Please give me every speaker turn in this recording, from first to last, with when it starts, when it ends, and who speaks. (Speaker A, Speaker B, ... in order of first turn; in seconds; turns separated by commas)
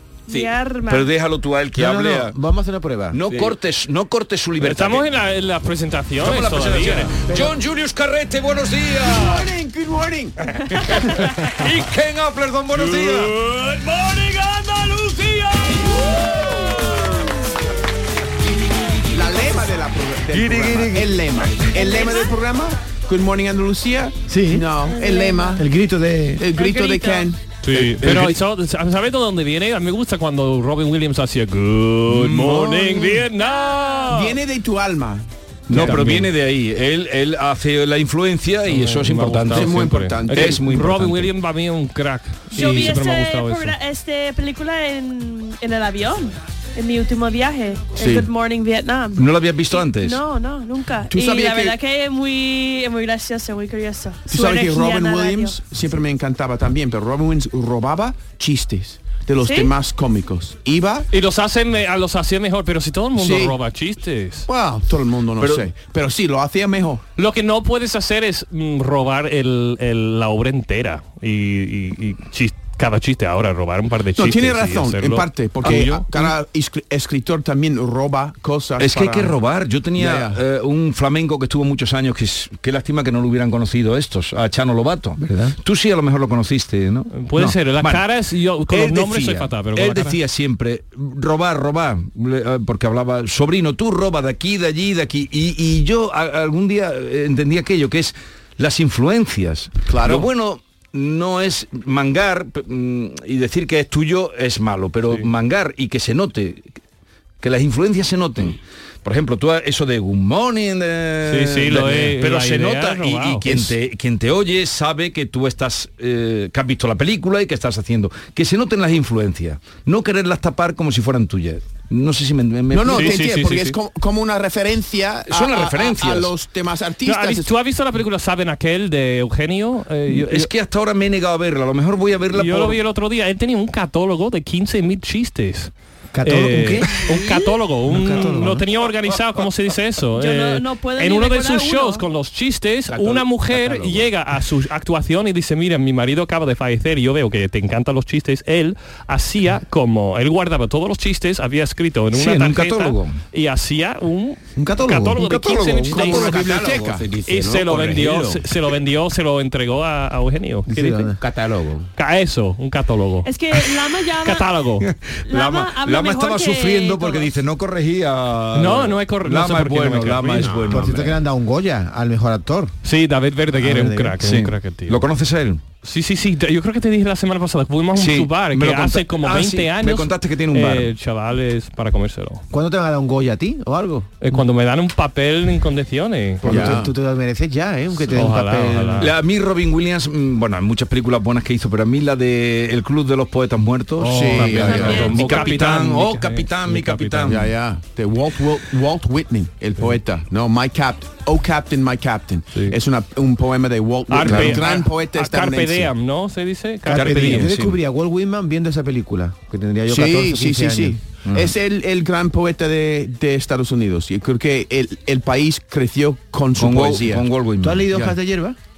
Speaker A: 0.3-1.1, Speaker B: 0.9-2.4, Speaker C: 1.7-3.2, Speaker B: 3.1-5.1, Speaker D: 3.3-3.5, Speaker E: 4.6-7.2, Speaker B: 6.2-9.5, Speaker F: 9.1-10.4, Speaker B: 11.0-17.2, Speaker E: 12.7-13.6, Speaker F: 19.1-25.6, Speaker B: 20.3-21.2, Speaker A: 21.8-22.3, Speaker C: 24.3-24.7, Speaker A: 24.9-25.6, Speaker C: 25.6-26.5, Speaker F: 26.4-27.4, Speaker A: 26.5-27.3, Speaker E: 27.6-34.3, Speaker B: 27.7-28.4, Speaker B: 32.1-32.6, Speaker F: 32.5-33.3, Speaker A: 33.4-34.1, Speaker F: 34.1-35.3, Speaker B: 35.7-41.3, Speaker E: 35.7-36.3, Speaker E: 38.7-43.8, Speaker F: 39.5-40.6, Speaker A: 42.5-55.6, Speaker F: 48.0-48.3, Speaker B: 49.2-50.2, Speaker F: 51.1-51.8, Speaker F: 54.3-61.1, Speaker A: 59.4-59.7, Speaker E: 61.1-64.5, Speaker F: 63.2-63.6, Speaker F: 64.5-67.0, Speaker B: 65.4-65.7, Speaker E: 67.2-76.3, Speaker F: 74.2-79.4, Speaker B: 75.7-75.9, Speaker B: 78.8-88.1, Speaker F: 80.0-80.4, Speaker C: 85.2-85.6, Speaker E: 87.1-90.2, Speaker B: 88.7-106.7, Speaker F: 99.9-100.3, Speaker B: 107.4-123.3, Speaker E: 111.2-113.7, Speaker F: 122.7-127.5, Speaker E: 122.9-123.8, Speaker B: 125.3-126.3, Speaker E: 127.1-130.5, Speaker B: 130.1-132.8, Speaker E: 132.3-156.5, Speaker C: 136.1-137.1, Speaker C: 137.9-138.7, Speaker A: 140.2-142.0, Speaker D: 142.9-143.7, Speaker B: 152.1-153.2, Speaker C: 154.6-155.3, Speaker B: 155.2-156.7, Speaker F: 155.9-157.1, Speaker D: 156.2-158.4, Speaker E: 157.3-161.1, Speaker C: 160.7-161.2, Speaker D: 161.2-161.9, Speaker E: 162.0-163.3, Speaker A: 163.2-164.5, Speaker E: 164.2-164.9, Speaker B: 164.8-171.2, Speaker A: 165.3-167.3, Speaker E: 168.5-170.6, Speaker D: 170.4-170.8, Speaker C: 170.7-172.7, Speaker E: 172.8-175.0, Speaker C: 173.5-174.2, Speaker B: 174.2-175.6, Speaker E: 175.8-182.4, Speaker B: 177.9-180.9, Speaker C: 182.5-184.1, Speaker E: 184.2-186.7, Speaker C: 186.4-189.1, Speaker F: 186.4-186.9, Speaker E: 188.1-189.1, Speaker B: 189.0-197.5, Speaker E: 194.0-197.4, Speaker F: 194.1-195.1, Speaker A: 194.7-195.5, Speaker F: 197.3-205.9, Speaker E: 204.1-207.5, Speaker B: 204.2-204.7, Speaker C: 206.9-211.0, Speaker B: 206.9-207.8, Speaker F: 209.9-217.3, Speaker B: 211.2-211.5, Speaker B: 216.6-217.9, Speaker C: 217.6-218.6